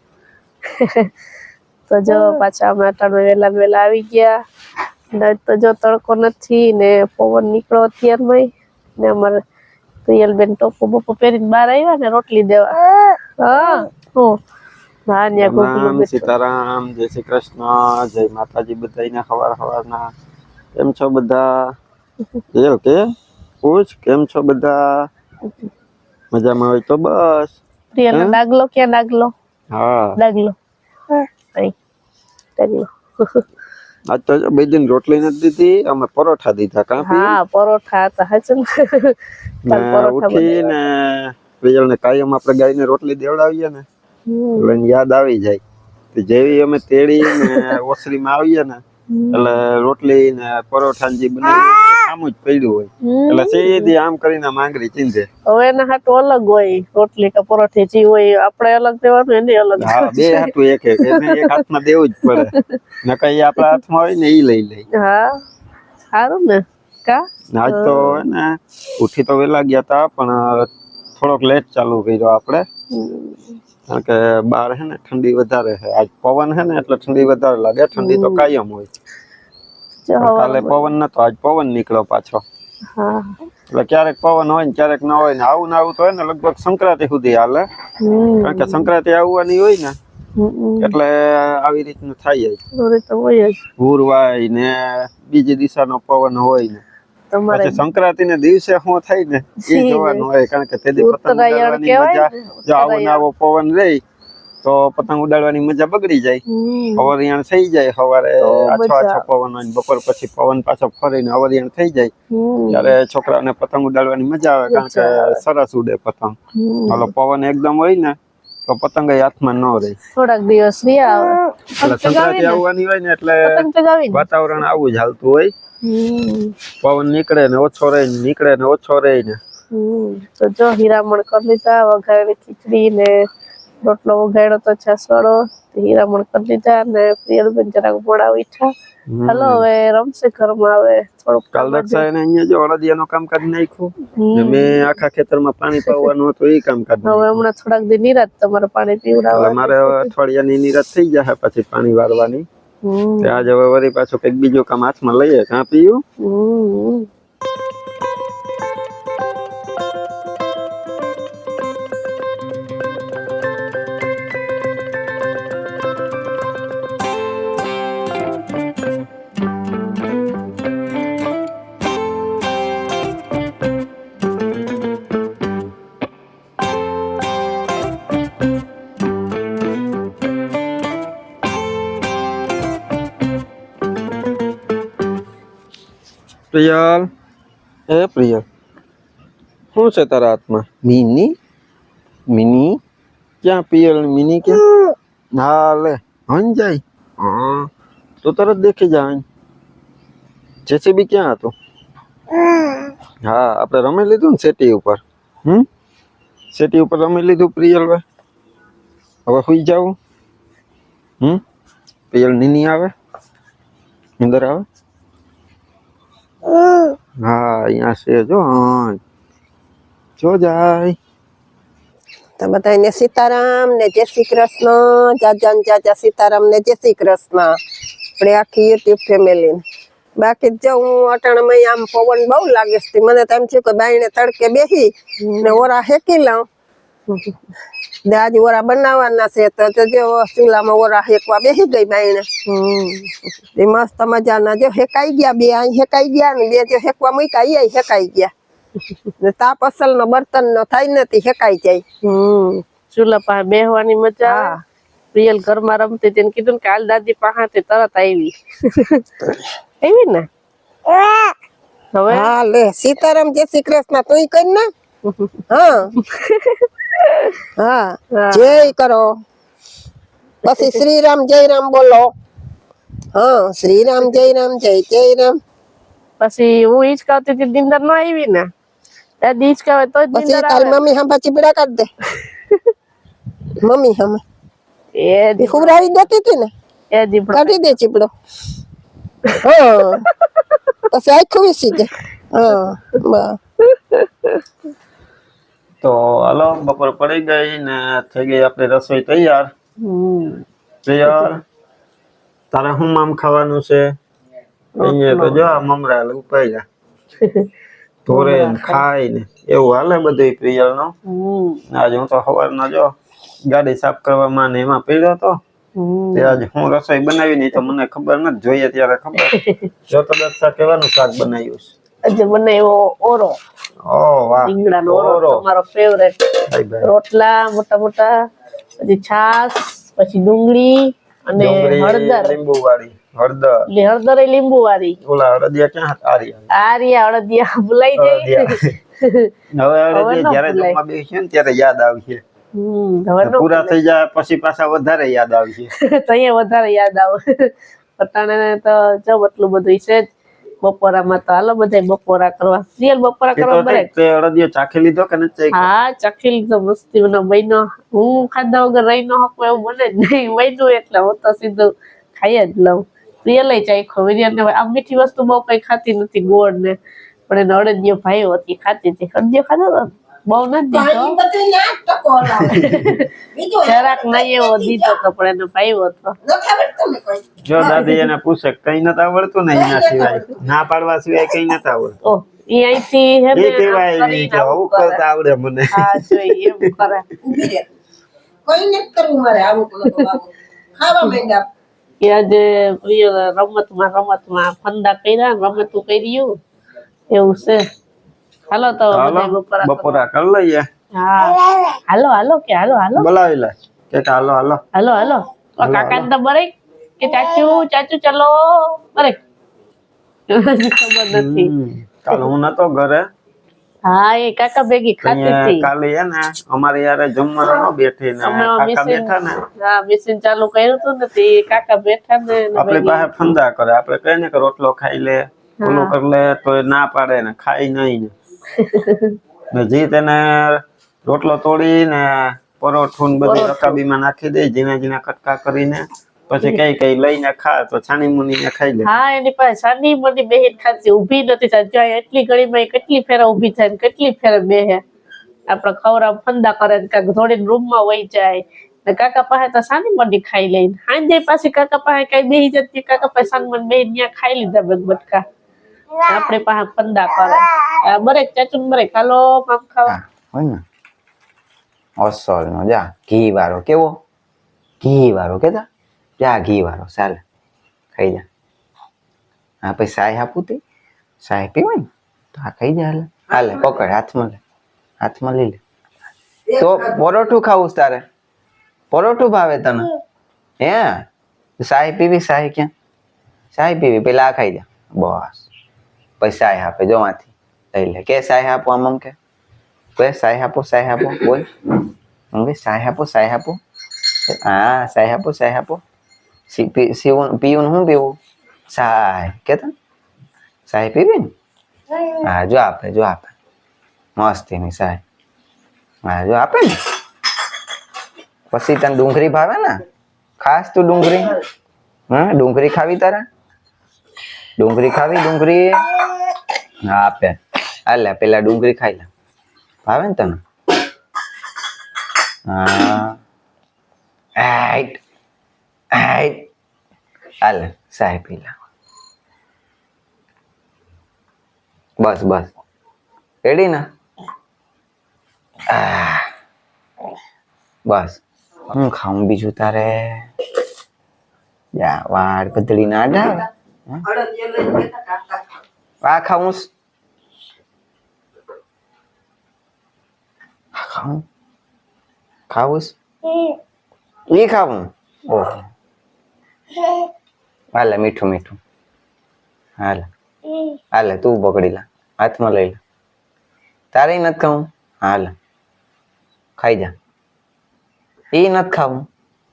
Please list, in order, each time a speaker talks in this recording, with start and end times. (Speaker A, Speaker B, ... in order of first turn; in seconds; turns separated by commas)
Speaker A: 0.8-1.1, Speaker A: 1.9-4.4, Speaker A: 5.1-9.4, Speaker A: 10.1-12.8, Speaker A: 13.4-14.4, Speaker A: 15.1-16.3, Speaker B: 15.4-20.1, Speaker B: 20.8-21.7, Speaker B: 22.5-23.0, Speaker B: 23.6-25.1, Speaker B: 26.3-27.6, Speaker A: 27.9-29.3, Speaker B: 28.1-28.4, Speaker B: 29.7-30.2, Speaker A: 30.2-30.6, Speaker A: 32.6-33.4, Speaker B: 34.1-37.4, Speaker A: 37.0-40.8, Speaker B: 39.7-43.9, Speaker A: 44.3-44.7, Speaker B: 44.5-45.6, Speaker B: 46.1-55.3, Speaker A: 47.3-47.8, Speaker A: 49.1-49.4, Speaker A: 53.0-53.9, Speaker A: 55.5-60.5, Speaker B: 59.8-64.9, Speaker A: 61.0-61.6, Speaker A: 62.3-62.8, Speaker A: 64.9-65.3, Speaker A: 66.1-68.2, Speaker B: 67.5-72.7, Speaker A: 72.9-73.6, Speaker B: 73.9-78.9, Speaker A: 78.0-78.5, Speaker A: 80.1-80.9, Speaker B: 80.2-82.4, Speaker A: 83.0-83.3, Speaker B: 83.7-87.7, Speaker A: 88.0-88.9, Speaker B: 88.4-90.0, Speaker A: 90.4-91.0, Speaker B: 90.8-92.6, Speaker A: 92.8-93.6, Speaker B: 93.8-96.8, Speaker A: 97.3-97.8, Speaker B: 97.5-104.0, Speaker A: 99.7-100.2, Speaker A: 101.0-103.2, Speaker B: 104.6-106.4, Speaker A: 106.5-107.1, Speaker B: 107.0-112.1, Speaker A: 108.4-109.2, Speaker A: 112.3-112.9, Speaker B: 112.7-120.0, Speaker A: 114.7-115.4, Speaker A: 116.5-117.1, Speaker A: 120.1-122.6, Speaker B: 121.8-125.5, Speaker A: 123.5-124.2, Speaker A: 125.8-126.5, Speaker B: 126.8-129.4, Speaker A: 129.7-133.2, Speaker A: 133.8-138.7, Speaker B: 139.1-139.7, Speaker A: 139.3-142.1, Speaker B: 141.5-147.4, Speaker A: 144.2-144.9, Speaker A: 147.0-150.1, Speaker B: 149.3-152.5, Speaker A: 152.8-153.4, Speaker B: 153.2-156.0, Speaker A: 156.2-157.1, Speaker B: 186.5-187.1, Speaker B: 187.9-188.4, Speaker B: 189.7-191.3, Speaker B: 192.3-192.8, Speaker B: 193.4-194.6, Speaker B: 195.3-197.7, Speaker B: 198.2-199.2, Speaker B: 200.7-201.5, Speaker B: 203.2-205.7, Speaker B: 206.5-208.0, Speaker B: 209.3-210.0, Speaker B: 212.1-212.9, Speaker B: 214.2-214.7, Speaker B: 217.2-219.0, Speaker B: 220.2-221.0, Speaker C: 222.4-227.6, Speaker C: 228.2-229.6, Speaker C: 230.2-236.5, Speaker A: 235.2-235.7, Speaker A: 237.1-237.4, Speaker C: 238.1-242.3, Speaker A: 242.5-243.2, Speaker C: 243.6-248.3, Speaker C: 249.2-251.8, Speaker A: 252.0-254.5, Speaker C: 254.2-254.6, Speaker A: 255.1-259.0, Speaker A: 259.8-260.3, Speaker A: 261.9-262.3, Speaker C: 262.1-264.7, Speaker A: 265.1-265.4, Speaker C: 265.5-265.9, Speaker A: 265.9-267.4, Speaker C: 267.6-269.1, Speaker A: 268.1-268.7, Speaker C: 270.4-272.1, Speaker C: 273.1-275.4, Speaker A: 276.2-278.5, Speaker A: 279.2-280.8, Speaker C: 280.1-281.9, Speaker C: 283.6-284.2, Speaker A: 284.9-285.8, Speaker C: 285.4-286.5, Speaker A: 286.9-287.6, Speaker C: 287.3-288.1, Speaker C: 289.4-290.0, Speaker A: 290.3-290.6, Speaker C: 290.9-293.4, Speaker A: 293.7-294.4, Speaker B: 295.8-299.5, Speaker A: 299.8-300.4, Speaker B: 300.9-301.4, Speaker A: 301.1-301.3, Speaker B: 302.5-303.9, Speaker A: 304.8-305.6, Speaker B: 304.8-306.6, Speaker A: 307.2-307.5, Speaker B: 308.1-310.9, Speaker A: 308.1-308.8, Speaker A: 311.1-311.6, Speaker B: 311.7-312.9, Speaker B: 313.5-315.4, Speaker A: 315.8-316.4, Speaker B: 316.1-319.4, Speaker A: 319.2-319.6, Speaker B: 319.9-321.7, Speaker A: 322.1-323.4, Speaker B: 323.9-325.4, Speaker A: 324.4-326.2, Speaker B: 326.5-326.9, Speaker A: 326.8-328.1, Speaker A: 328.8-332.4, Speaker B: 331.4-333.6, Speaker A: 333.7-335.0, Speaker B: 335.0-336.5, Speaker A: 336.5-339.3, Speaker B: 337.9-338.8, Speaker B: 339.5-342.2, Speaker A: 339.9-340.8, Speaker A: 342.6-343.8, Speaker B: 343.2-345.7, Speaker A: 345.8-350.1, Speaker A: 350.6-353.9, Speaker B: 353.4-355.7, Speaker A: 355.5-366.8, Speaker A: 367.3-371.2, Speaker C: 370.7-375.0, Speaker A: 372.5-373.1, Speaker A: 373.7-376.2, Speaker C: 376.2-377.9, Speaker B: 377.4-382.0, Speaker C: 379.5-380.4, Speaker A: 382.0-385.0, Speaker B: 383.3-386.7, Speaker A: 385.7-387.1, Speaker C: 387.2-387.7, Speaker C: 388.5-391.5, Speaker A: 392.0-396.3, Speaker A: 397.1-397.6, Speaker A: 398.5-400.0, Speaker B: 398.9-400.7, Speaker A: 400.9-403.1, Speaker B: 403.0-404.6, Speaker A: 404.7-409.2, Speaker B: 405.6-406.1, Speaker A: 410.3-411.5, Speaker B: 411.1-413.1, Speaker A: 413.9-415.7, Speaker B: 415.0-419.4, Speaker A: 418.2-423.1, Speaker B: 422.6-428.1, Speaker A: 425.6-425.9, Speaker A: 428.6-429.2, Speaker B: 429.5-439.0, Speaker A: 433.2-433.8, Speaker A: 438.8-444.8, Speaker A: 445.5-455.2, Speaker A: 456.0-459.9, Speaker D: 459.9-460.6, Speaker D: 462.0-464.0, Speaker D: 464.8-465.7, Speaker D: 466.2-467.2, Speaker D: 467.9-468.2, Speaker D: 469.6-470.6, Speaker D: 471.2-474.4, Speaker D: 475.0-475.6, Speaker C: 476.5-477.0, Speaker D: 476.6-478.1, Speaker D: 478.9-479.9, Speaker D: 480.6-481.1, Speaker D: 481.6-482.7, Speaker D: 483.5-485.5, Speaker D: 486.2-489.2, Speaker D: 490.0-491.5, Speaker D: 492.3-493.6, Speaker D: 494.3-495.8, Speaker D: 496.5-498.2, Speaker D: 498.7-499.7, Speaker D: 500.7-501.3, Speaker D: 502.2-503.3, Speaker D: 504.2-505.0, Speaker D: 506.1-506.8, Speaker D: 508.5-509.8, Speaker D: 510.4-511.4, Speaker D: 512.1-513.3, Speaker D: 514.6-515.9, Speaker D: 516.9-519.1, Speaker D: 519.9-520.4, Speaker D: 522.5-523.2, Speaker D: 524.4-525.0, Speaker D: 525.9-526.5, Speaker D: 527.4-528.5, Speaker D: 532.0-532.5, Speaker D: 533.4-533.9, Speaker D: 535.7-536.3, Speaker D: 537.9-540.3, Speaker D: 541.8-544.0, Speaker C: 544.0-545.6, Speaker D: 546.0-546.7, Speaker D: 550.8-551.2, Speaker D: 552.5-553.0, Speaker D: 554.3-555.7, Speaker D: 557.8-558.6, Speaker D: 559.8-560.1, Speaker D: 560.9-562.8, Speaker D: 563.9-565.4, Speaker D: 566.6-566.9, Speaker D: 568.3-569.1